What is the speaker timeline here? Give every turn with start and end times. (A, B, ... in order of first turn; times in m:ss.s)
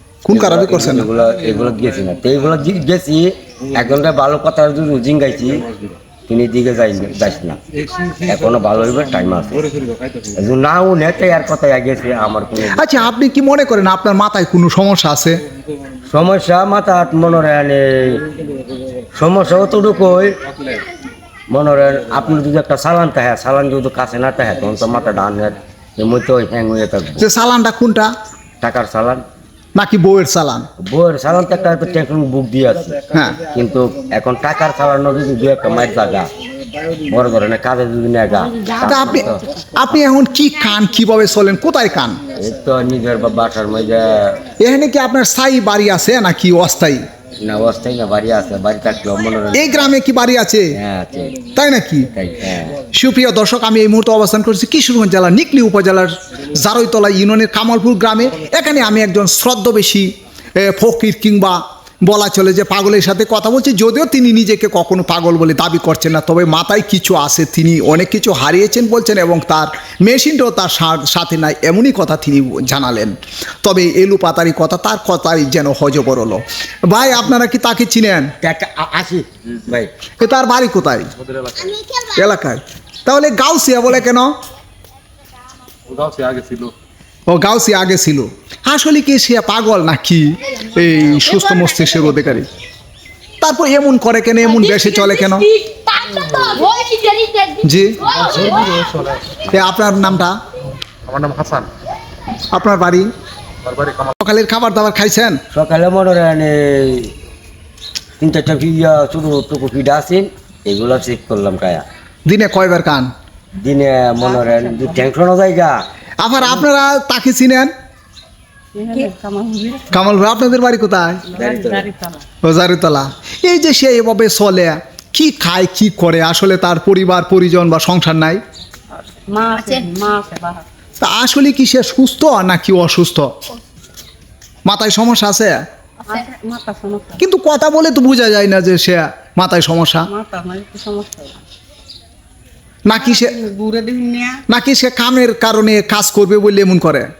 0:00.2-0:01.1 A
0:00.3-0:05.7 B
0:06.3-0:07.6 B
0:08.2-0:09.7 B
0:10.2-0:13.1 B
0:12.7-0:15.4 A
0:16.1-0:18.3 B
0:19.2-0:20.4 B
0:21.5-0:27.3 B
0:27.2-0:28.1 A
0:28.6-0:29.2 B
0:29.8-0:30.6 A
0:30.8-0:36.3 B
0:33.1-0:33.4 A
0:37.0-0:39.4 B
0:38.8-0:42.2 A
0:42.3-0:44.4 B
0:44.6-0:47.0 A
0:47.4-0:49.9 B
0:49.5-0:50.7 A
0:50.8-0:51.4 B
0:51.5-0:52.1 A
0:52.1-0:52.8 B
0:52.9-1:18.3 A
1:18.4-1:19.9 B
1:20.2-1:21.1 A
1:21.5-1:22.0 C
1:22.0-1:24.3 A
1:26.0-1:26.7 C
1:27.3-1:32.5 A
1:33.4-1:35.5 A
1:35.5-1:39.3 C
1:37.6-1:38.2 A
1:39.4-1:40.4 A
1:41.1-1:41.7 C
1:42.5-1:43.1 A
1:44.2-1:45.4 A
1:45.5-1:47.1 B
1:48.2-1:51.8 B
1:52.2-1:53.1 A
1:53.6-1:55.8 B
1:54.3-1:55.0 C
1:56.2-1:57.7 A
1:58.7-2:00.0 C
1:59.9-2:01.2 A
2:01.2-2:02.2 C
2:01.3-2:01.9 B
2:02.4-2:08.4 A
2:08.9-2:10.7 C
2:11.0-2:13.3 A
2:14.6-2:15.6 A
2:16.1-2:17.2 C
2:17.2-2:20.1 A
2:20.1-2:21.4 C
2:22.8-2:23.3 A
2:22.9-2:24.4 C
2:24.5-2:27.1 A